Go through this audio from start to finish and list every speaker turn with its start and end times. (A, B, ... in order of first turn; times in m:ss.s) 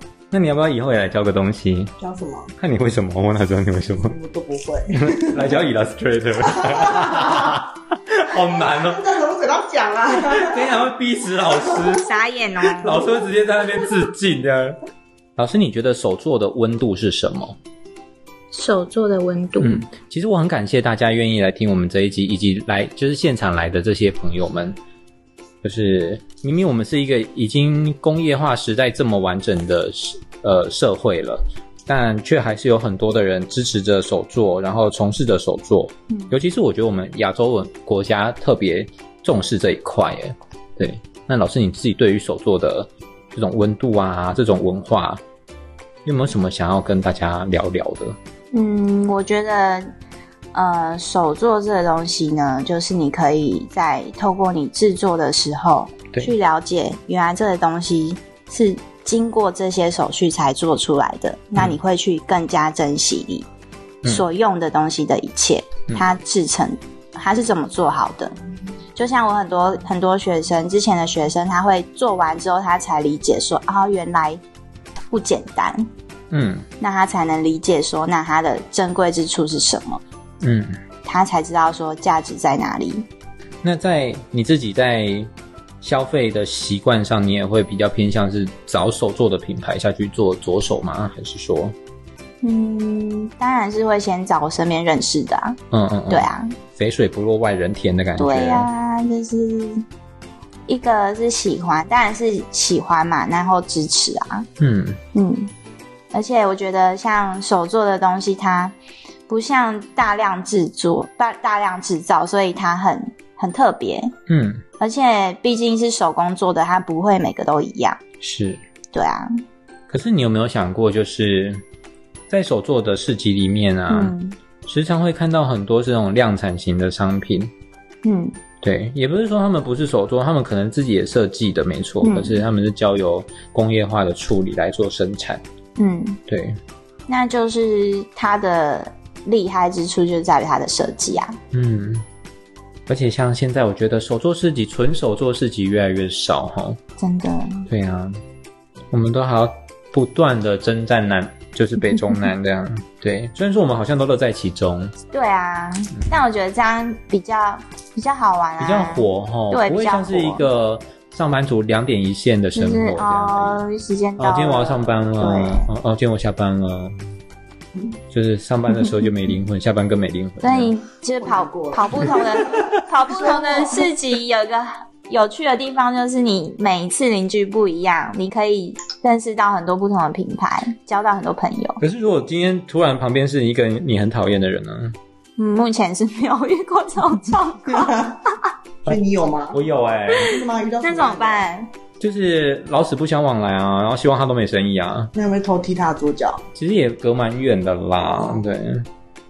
0:00.3-0:01.9 A
0:02.0-0:02.5 B
0:02.6-0:04.2 A
0:04.0-0:05.5 B
0:04.9-0:09.1 A
0:06.6-0:07.6 B
0:08.6-0:10.7 B
0:10.2-0:12.1 A
0:12.0-0:13.1 C
0:12.7-0:14.8 A
0:15.4-0:17.6 A
0:18.5-0:19.8 C
0:19.6-0:24.8 A
0:25.6-0:45.2 A
0:46.0-0:48.2 A
0:48.5-0:49.9 C
0:50.5-1:03.5 C
1:04.0-1:08.3 C
1:09.0-1:14.4 C
1:15.1-1:15.9 C
1:16.3-1:16.7 A
1:16.8-1:20.0 C
1:20.4-1:20.8 A
1:21.0-1:23.1 C
1:23.6-1:25.3 A
1:25.8-1:31.8 A
1:32.4-1:36.5 C
1:35.7-1:38.7 A
1:38.2-1:39.8 C
1:40.7-1:44.5 C
1:44.6-1:45.0 A
1:45.1-1:45.5 C
1:46.1-1:48.8 C
1:49.3-1:54.1 C
1:54.3-1:54.6 A
1:54.8-1:58.0 C
1:58.2-1:58.6 A
1:58.9-1:59.4 C
1:59.9-2:01.6 A
2:02.3-2:04.1 A
2:03.9-2:04.4 C
2:04.7-2:07.5 A
2:08.0-2:08.4 C
2:08.6-2:15.4 A
2:12.0-2:12.4 C
2:15.8-2:16.2 C
2:16.3-2:16.6 A
2:17.1-2:21.4 C
2:21.5-2:22.0 A
2:22.9-2:26.8 A
2:27.0-2:27.7 C
2:27.7-2:28.2 A
2:28.9-2:34.9 A
2:35.1-2:40.4 C
2:38.6-2:43.6 A
2:42.6-2:45.7 C
2:44.2-2:47.0 A
2:48.1-2:50.7 A
2:50.4-3:01.8 C
2:51.2-2:53.9 B
3:01.8-3:05.0 A
3:05.4-3:08.1 C
3:07.7-3:08.2 B
3:08.8-3:09.6 B
3:09.5-3:10.3 A
3:10.2-3:11.4 B
3:10.3-3:11.7 C
3:12.0-3:15.1 A
3:15.2-3:16.4 B
3:16.6-3:18.9 A